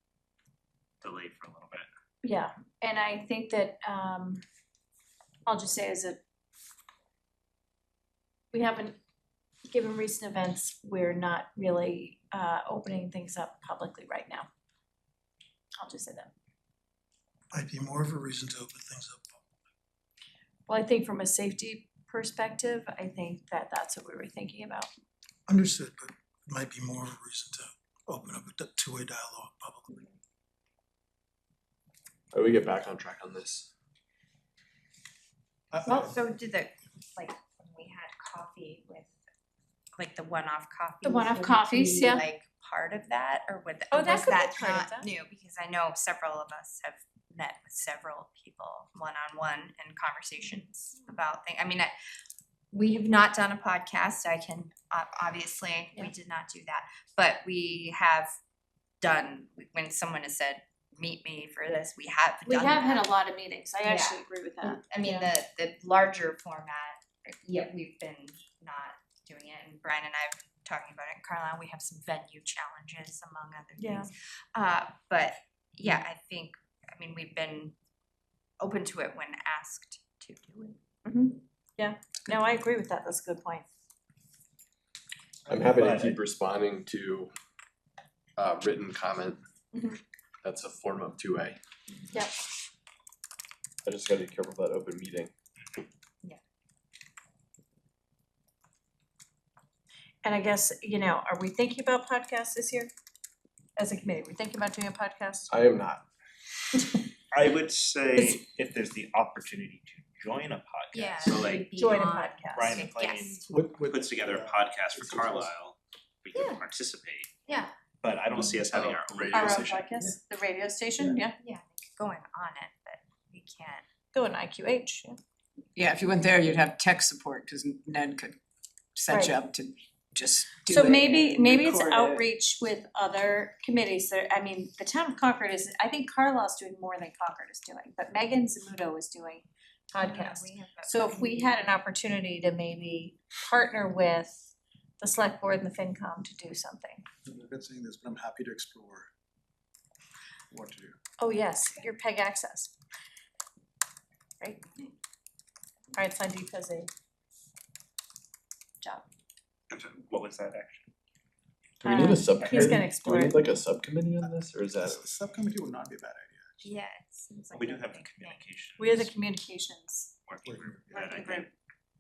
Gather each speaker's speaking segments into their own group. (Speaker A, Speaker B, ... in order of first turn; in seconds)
Speaker A: 1.0-1.8, 85.5-86.2, 107.3-111.7, 112.5-117.3, 118.0-119.9, 159.7-160.9, 162.4-162.7, 167.5-169.1, 170.3-171.5
Speaker B: 2.2-4.4, 5.5-6.2, 8.5-8.9, 9.7-14.5, 15.8-16.3, 20.7-24.9, 41.0-42.2, 43.9-45.1, 62.4-65.3, 73.8-74.1, 81.0-83.7, 100.2-102.9, 103.8-105.5, 111.8-112.8, 119.3-121.3, 124.1-125.2, 129.1-129.4, 130.7-147.0, 151.2-152.7, 154.4-154.7, 155.9-156.9, 161.8-163.4, 168.8-170.1
Speaker C: 17.5-19.4, 25.5-29.9
Speaker D: 32.3-33.7, 85.5-87.3, 88.4-89.4, 90.4-91.6, 93.8-95.3, 105.5-106.0, 118.7-119.6, 161.8-165.0
Speaker E: 35.8-39.1, 39.9-51.9, 52.7-58.3, 59.0-63.1, 63.8-77.7, 78.6-81.0, 110.9-113.5, 116.3-116.6, 117.5-117.7, 121.4-123.8, 140.0-141.8, 166.6-168.4, 171.1-171.4
Speaker F: 113.7-115.4, 147.3-149.1, 150.5-150.9, 164.8-166.5, 170.5-171.2
Speaker G: 125.8-128.4, 128.9-132.2